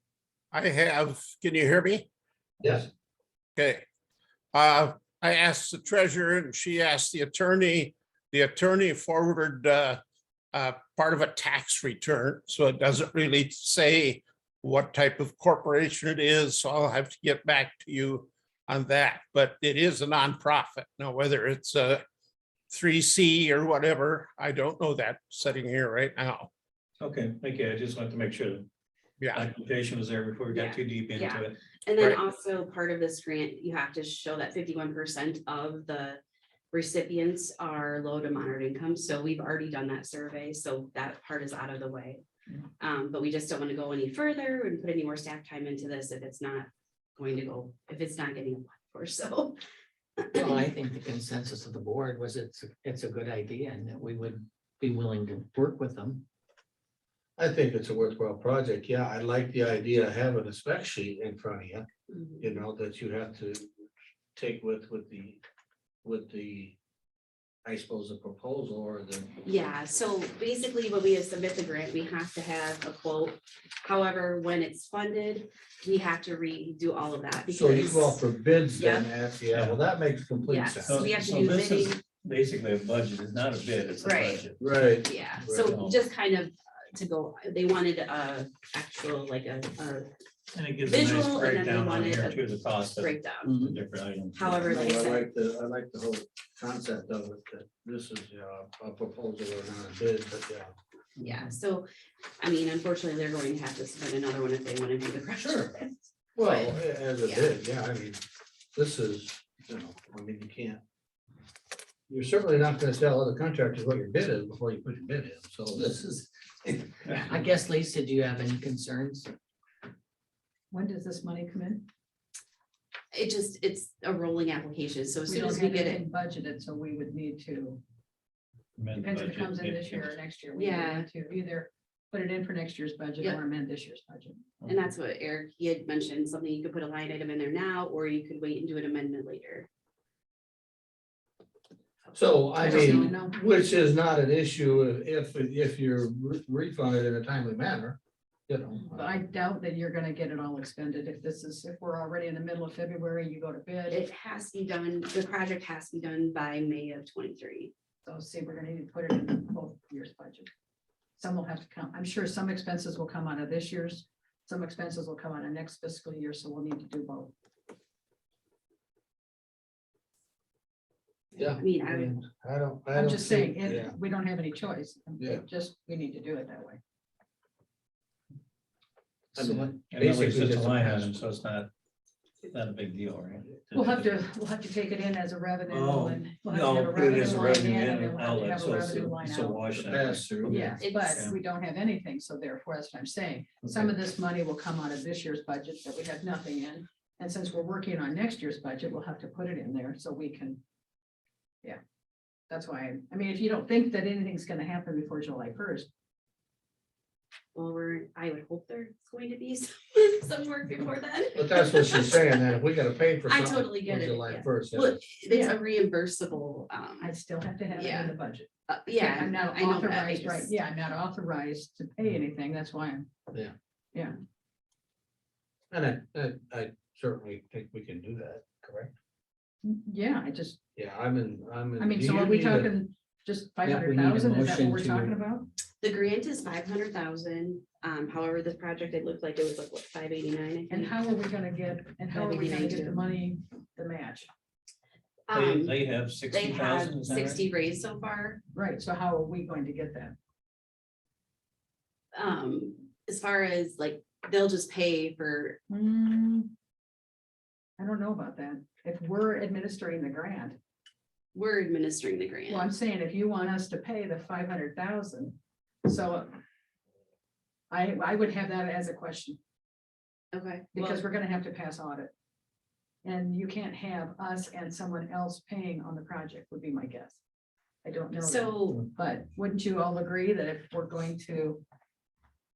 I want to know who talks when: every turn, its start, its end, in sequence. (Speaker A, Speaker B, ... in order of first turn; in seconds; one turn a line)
Speaker A: 0.5-2.1
Speaker B: 2.6-2.9
Speaker A: 3.6-3.9
Speaker A: 4.5-10.0
Speaker A: 10.5-22.0
Speaker A: 22.7-26.5
Speaker C: 27.0-28.7
Speaker A: 29.2-29.4
Speaker C: 29.3-31.6
Speaker D: 30.5-36.2
Speaker D: 36.7-42.2
Speaker D: 42.8-49.6
Speaker D: 50.3-50.6
Speaker E: 50.3-56.2
Speaker B: 57.4-61.9
Speaker D: 62.1-62.6
Speaker B: 62.4-63.7
Speaker B: 64.3-65.4
Speaker B: 66.0-66.8
Speaker B: 67.7-69.3
Speaker D: 69.4-79.1
Speaker B: 77.5-81.1
Speaker C: 79.5-79.8
Speaker D: 80.5-82.0
Speaker C: 80.8-84.6
Speaker D: 84.0-84.4
Speaker B: 84.6-85.8
Speaker D: 85.0-90.1
Speaker C: 85.5-86.0
Speaker C: 90.5-94.8
Speaker D: 90.8-93.5
Speaker D: 94.3-95.3
Speaker B: 94.7-100.7
Speaker C: 101.2-101.5
Speaker D: 101.2-101.9
Speaker D: 102.4-107.6
Speaker B: 105.4-105.8
Speaker B: 106.4-108.2
Speaker B: 108.7-110.8
Speaker B: 112.1-116.9
Speaker E: 117.2-119.3
Speaker F: 120.7-121.9
Speaker D: 123.1-126.0
Speaker F: 125.3-127.8
Speaker C: 128.8-130.2
Speaker F: 129.0-134.4
Speaker D: 130.6-131.1
Speaker D: 134.7-139.7
Speaker B: 142.1-149.2
Speaker F: 142.6-143.4
Speaker D: 142.6-143.2
Speaker F: 148.8-154.0
Speaker D: 153.9-157.7
Speaker F: 158.0-160.5
Speaker F: 161.2-167.3
Speaker B: 171.3-173.9
Speaker D: 171.4-172.2
Speaker F: 172.9-176.8
Speaker B: 179.3-181.1
Speaker E: 179.4-179.6
Speaker C: 179.9-181.7
Speaker C: 182.5-184.1
Speaker F: 183.7-189.7
Speaker C: 185.7-191.4
Speaker B: 189.7-190.8
Speaker F: 190.5-200.6
Speaker D: 190.8-191.3
Speaker F: 202.5-205.9
Speaker D: 207.6-212.4
Speaker B: 211.4-215.0
Speaker D: 213.2-217.1
Speaker F: 215.3-215.6
Speaker F: 217.0-223.1
Speaker D: 217.7-218.2
Speaker D: 218.7-220.6
Speaker B: 225.7-228.9
Speaker F: 229.6-230.6
Speaker B: 230.8-232.7
Speaker F: 231.8-235.5
Speaker E: 233.6-235.2
Speaker D: 235.8-240.9
Speaker F: 240.7-244.3
Speaker D: 242.1-243.0
Speaker D: 245.3-245.8
Speaker C: 245.3-247.4
Speaker D: 246.3-248.4
Speaker F: 248.5-250.2
Speaker D: 252.1-255.6
Speaker F: 255.7-256.5
Speaker F: 257.8-260.6
Speaker D: 261.3-262.7
Speaker F: 262.5-266.4
Speaker F: 267.7-269.4
Speaker D: 270.3-271.0
Speaker F: 270.7-272.1
Speaker F: 273.0-277.2
Speaker F: 277.8-281.6
Speaker D: 278.1-278.9